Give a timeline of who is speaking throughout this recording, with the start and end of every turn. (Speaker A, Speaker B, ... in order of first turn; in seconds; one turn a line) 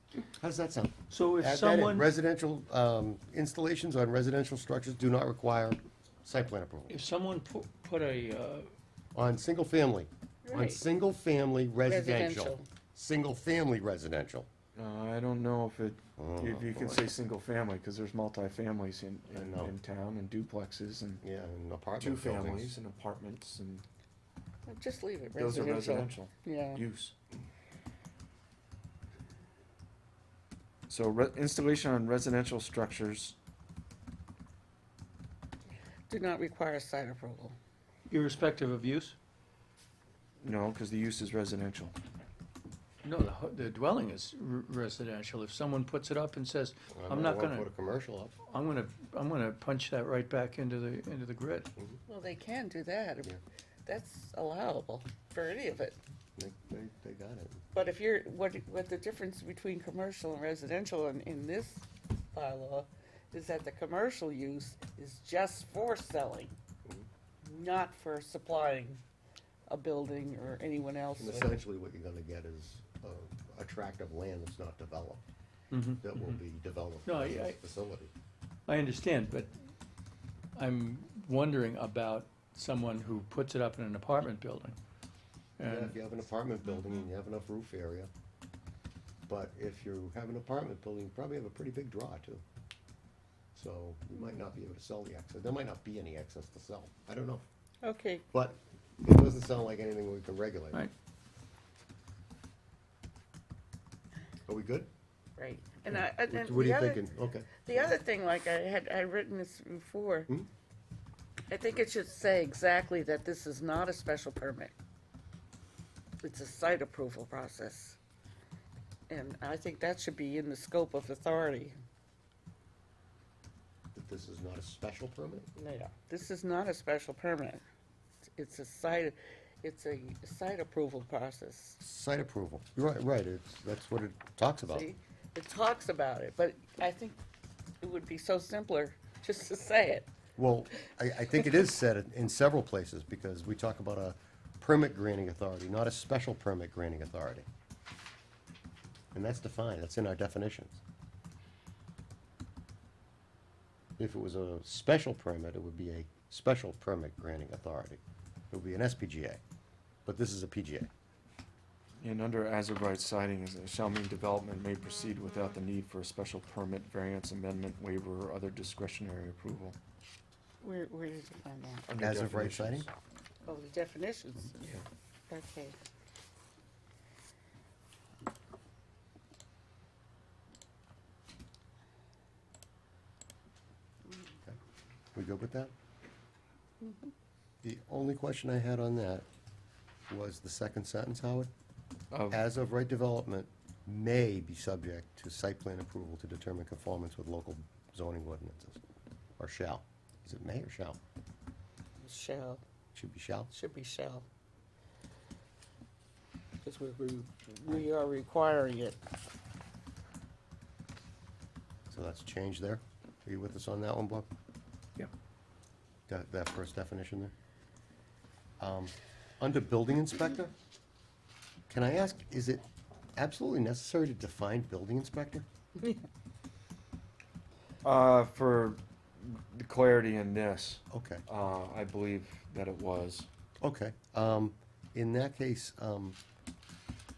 Speaker A: 0.4-6.9
Speaker B: 1.1-2.1
Speaker B: 6.9-8.7
Speaker A: 9.1-14.5
Speaker C: 10.4-10.8
Speaker C: 11.8-12.7
Speaker D: 14.8-21.2
Speaker A: 16.2-17.0
Speaker A: 19.3-19.7
Speaker A: 21.2-22.8
Speaker D: 22.0-23.8
Speaker C: 24.7-26.8
Speaker D: 25.3-27.1
Speaker D: 30.9-33.4
Speaker C: 36.1-37.5
Speaker B: 38.1-39.2
Speaker D: 40.4-41.9
Speaker B: 43.0-47.7
Speaker A: 46.9-48.4
Speaker B: 48.5-51.7
Speaker A: 51.8-52.0
Speaker C: 52.1-56.0
Speaker A: 56.4-57.6
Speaker C: 57.7-66.5
Speaker C: 67.4-69.0
Speaker C: 69.7-71.5
Speaker A: 71.2-75.2
Speaker B: 75.7-76.4
Speaker A: 76.0-78.1
Speaker B: 77.0-77.6
Speaker B: 78.7-79.5
Speaker B: 80.5-84.8
Speaker B: 85.6-85.9
Speaker A: 85.6-88.1
Speaker A: 89.3-92.4
Speaker A: 93.5-97.4
Speaker C: 97.8-98.2
Speaker A: 98.3-100.8
Speaker A: 104.5-104.9
Speaker C: 105.4-107.0
Speaker A: 105.9-107.9
Speaker C: 107.6-110.3
Speaker C: 111.5-114.7
Speaker C: 116.2-118.0
Speaker C: 119.1-121.7
Speaker A: 123.9-125.5
Speaker C: 125.5-127.6
Speaker C: 128.3-131.8
Speaker A: 131.8-134.9
Speaker C: 134.7-137.2
Speaker C: 137.8-140.1
Speaker A: 140.4-147.4
Speaker A: 149.1-150.8
Speaker A: 154.0-159.4
Speaker A: 160.1-160.9
Speaker D: 162.0-169.8
Speaker C: 170.6-171.8
Speaker D: 171.9-172.9
Speaker A: 172.0-172.9
Speaker C: 173.4-174.8
Speaker C: 175.3-175.8
Speaker A: 185.1-185.7
Speaker C: 186.8-187.1
Speaker A: 187.6-189.2
Speaker A: 190.1-191.5
Speaker D: 192.1-192.4
Speaker A: 192.3-198.8
Speaker A: 199.4-201.0
Speaker C: 202.0-202.6
Speaker A: 202.9-203.5
Speaker C: 203.5-204.2
Speaker C: 206.6-209.0
Speaker A: 211.9-214.3
Speaker A: 216.1-217.3
Speaker A: 218.6-220.5
Speaker A: 221.7-222.6
Speaker A: 223.2-225.4
Speaker D: 227.8-233.3
Speaker A: 230.9-231.2
Speaker A: 233.6-236.2